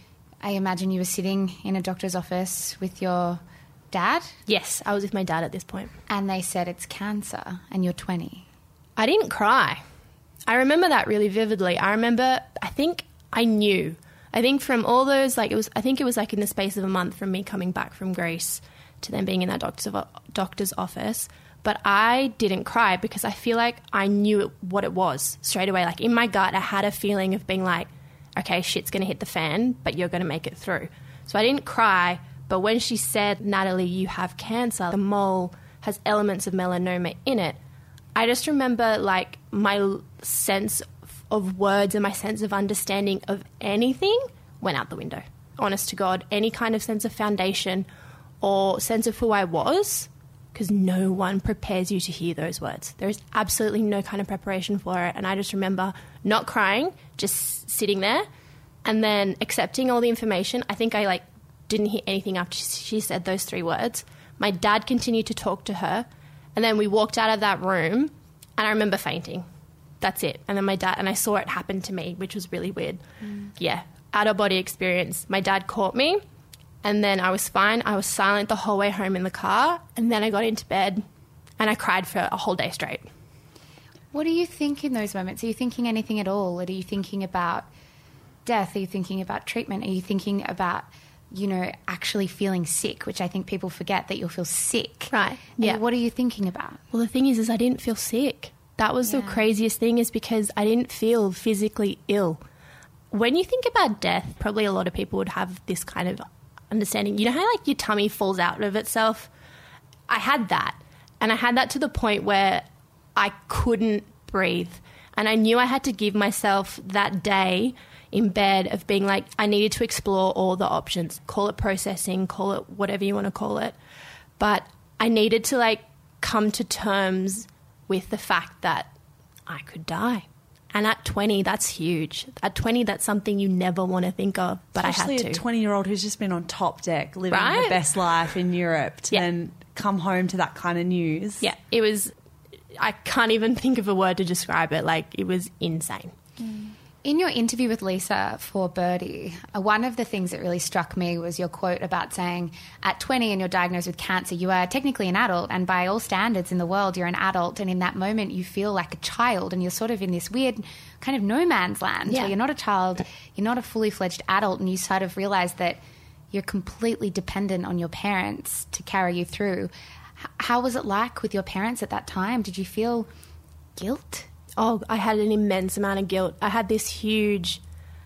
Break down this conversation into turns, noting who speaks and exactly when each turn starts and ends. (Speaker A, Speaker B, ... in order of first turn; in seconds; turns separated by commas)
Speaker A: 0.4-4.3, Speaker B: 4.5-5.9, Speaker A: 6.1-8.4, Speaker B: 9.0-9.8, Speaker B: 10.5-37.6, Speaker B: 38.1-47.9, Speaker B: 48.4-58.2, Speaker B: 58.8-69.4, Speaker B: 70.0-73.0, Speaker B: 73.6-76.2, Speaker B: 76.8-81.0, Speaker B: 81.6-83.1, Speaker A: 84.1-87.7, Speaker A: 88.4-96.8, Speaker B: 95.1-95.8, Speaker B: 96.9-102.4, Speaker A: 99.0-99.4, Speaker B: 103.1-109.3, Speaker B: 110.1-112.6, Speaker B: 113.2-123.7, Speaker B: 124.4-128.9, Speaker B: 129.5-135.4, Speaker C: 134.8-141.5, Speaker B: 137.3-137.8, Speaker B: 141.4-142.1, Speaker B: 142.8-146.1, Speaker C: 146.4-146.7, Speaker A: 147.0-165.8, Speaker B: 162.1-162.3, Speaker A: 166.3-169.7, Speaker A: 170.2-173.1, Speaker A: 173.8-174.3, Speaker B: 174.6-177.6